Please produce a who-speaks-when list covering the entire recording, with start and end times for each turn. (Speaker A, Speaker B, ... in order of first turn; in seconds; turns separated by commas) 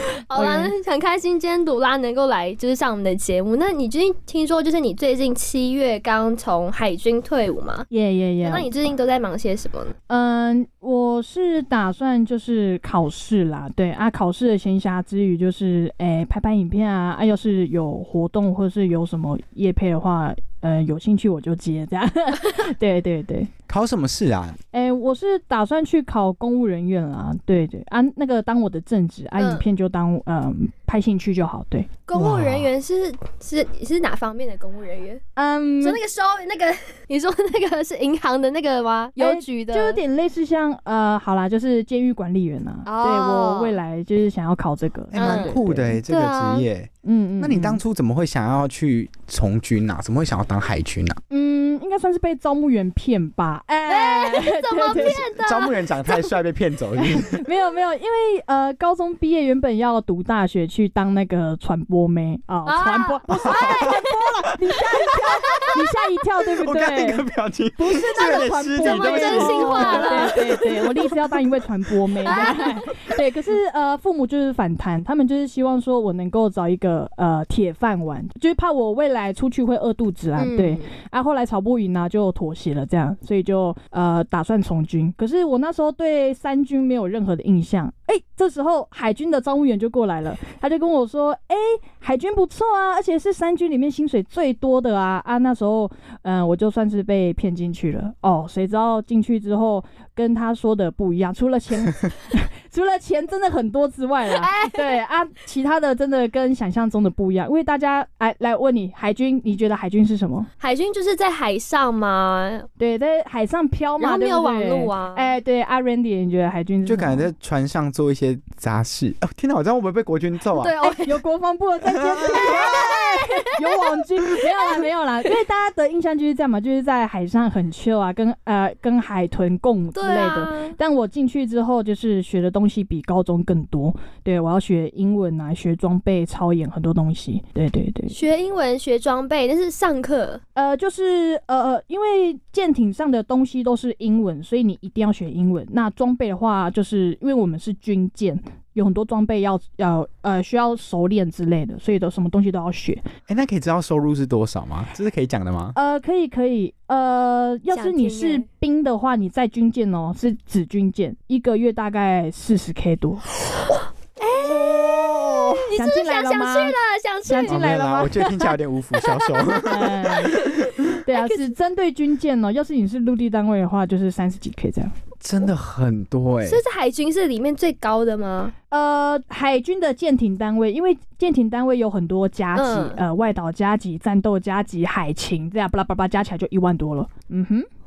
Speaker A: 0.3-7.9, Speaker B: 0.3-0.7, Speaker B: 7.9-8.7, Speaker A: 8.4-9.9, Speaker B: 10.1-23.5, Speaker C: 23.7-24.6, Speaker B: 24.7-32.0, Speaker A: 29.4-29.6, Speaker A: 32.1-35.2, Speaker C: 32.1-32.7, Speaker B: 35.4-36.0, Speaker A: 35.8-40.0, Speaker B: 39.1-46.0, Speaker A: 42.9-43.8, Speaker C: 45.1-51.2, Speaker A: 45.2-45.6, Speaker A: 46.1-46.6, Speaker B: 47.0-47.8, Speaker B: 51.3-55.2, Speaker A: 53.9-56.4, Speaker C: 54.9-57.4, Speaker B: 57.1-67.2, Speaker A: 62.6-64.0, Speaker C: 63.5-63.7, Speaker C: 66.6-70.6, Speaker B: 67.8-110.5, Speaker A: 68.2-70.8, Speaker A: 72.2-72.8, Speaker A: 80.4-80.9, Speaker A: 104.3-105.0, Speaker A: 110.6-112.7, Speaker B: 112.8-117.3, Speaker A: 114.0-115.3, Speaker C: 116.8-120.7, Speaker A: 120.5-121.2, Speaker B: 120.8-138.2, Speaker A: 122.2-123.9, Speaker A: 129.9-130.8, Speaker A: 138.1-140.4, Speaker B: 140.5-153.0, Speaker C: 153.3-155.8, Speaker B: 155.7-163.2, Speaker A: 157.7-158.4, Speaker A: 164.4-167.6, Speaker C: 164.4-165.7, Speaker B: 165.8-168.2, Speaker C: 167.4-170.0, Speaker A: 169.0-169.6, Speaker B: 169.6-170.3, Speaker A: 170.3-171.5, Speaker B: 171.0-174.9, Speaker C: 175.2-176.6, Speaker A: 176.4-178.5, Speaker B: 178.7-187.7, Speaker A: 182.5-183.0